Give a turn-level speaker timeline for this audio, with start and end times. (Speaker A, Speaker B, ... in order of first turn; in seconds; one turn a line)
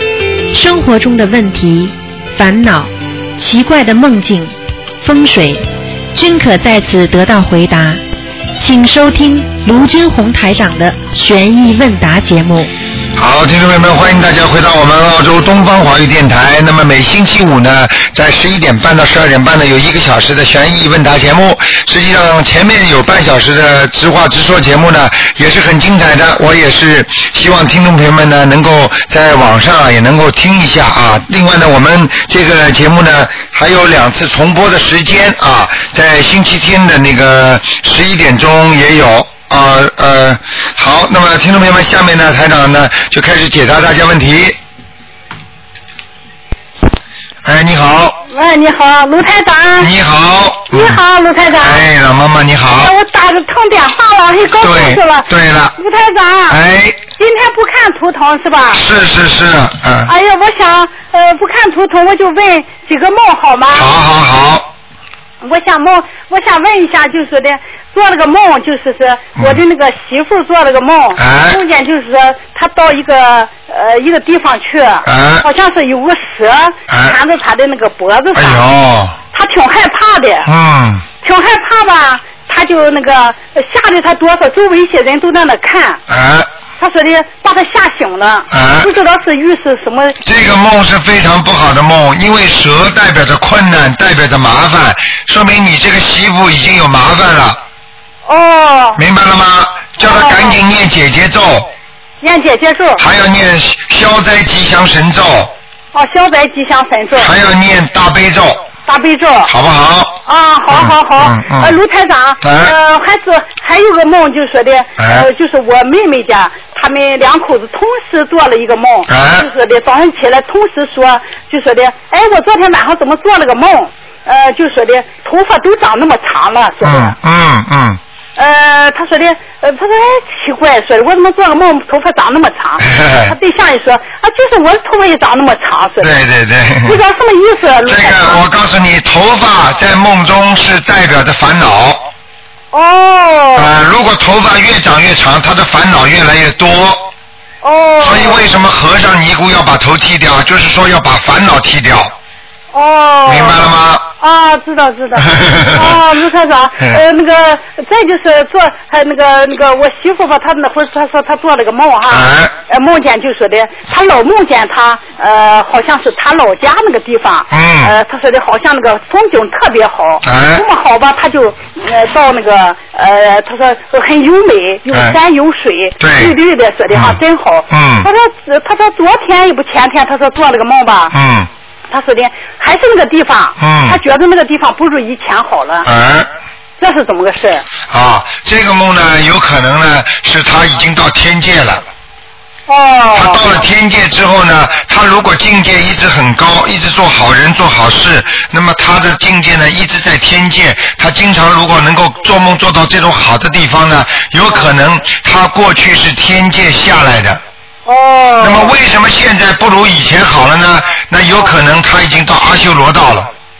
Speaker A: 0.5-8.0
Speaker A: 8.6-12.7
Speaker B: 13.2-44.6
Speaker B: 47.4-48.2
Speaker C: 48.3-49.9
Speaker B: 49.8-52.9
Speaker C: 50.7-51.9
Speaker C: 52.8-56.6
Speaker B: 54.6-55.8
Speaker B: 56.5-57.0
Speaker C: 57.2-58.8
Speaker B: 58.7-60.1
Speaker C: 60.1-63.9
Speaker B: 63.7-64.7
Speaker C: 65.4-78.7
Speaker B: 71.2-71.6
Speaker B: 75.0-75.5
Speaker B: 76.9-77.2
Speaker B: 78.3-79.2
Speaker C: 79.3-80.5
Speaker B: 80.5-81.1
Speaker C: 81.2-86.0
Speaker B: 86.1-86.5
Speaker C: 86.8-90.2
Speaker B: 88.5-88.9
Speaker B: 90.2-97.6
Speaker C: 98.3-99.0
Speaker B: 99.0-101.7
Speaker C: 100.0-100.6
Speaker C: 102.2-103.0
Speaker B: 103.0-105.5
Speaker C: 105.9-107.3
Speaker B: 107.2-108.7
Speaker C: 108.9-109.5
Speaker B: 109.5-110.2
Speaker C: 110.3-127.2
Speaker B: 110.7-111.8
Speaker B: 112.4-112.8
Speaker B: 115.0-115.3
Speaker B: 119.1-119.5
Speaker B: 126.8-128.0
Speaker C: 128.4-136.2
Speaker B: 132.8-133.4
Speaker B: 136.0-137.0
Speaker C: 136.8-138.4
Speaker B: 137.9-142.1
Speaker C: 142.7-143.7
Speaker B: 143.6-147.1
Speaker C: 147.6-148.5
Speaker B: 148.0-152.1
Speaker C: 152.7-181.1
Speaker B: 153.3-154.1
Speaker B: 155.2-156.0
Speaker B: 162.1-162.5
Speaker B: 167.5-167.9
Speaker B: 170.2-170.7
Speaker B: 174.9-175.2
Speaker B: 176.0-176.4
Speaker B: 176.9-177.2
Speaker B: 177.7-178.1
Speaker B: 181.1-181.5
Speaker C: 181.9-185.9
Speaker B: 183.6-184.0
Speaker B: 185.8-186.3
Speaker C: 186.8-187.6
Speaker B: 187.9-191.8
Speaker C: 192.7-193.7
Speaker B: 193.2-207.4
Speaker C: 207.9-208.8
Speaker B: 208.4-213.3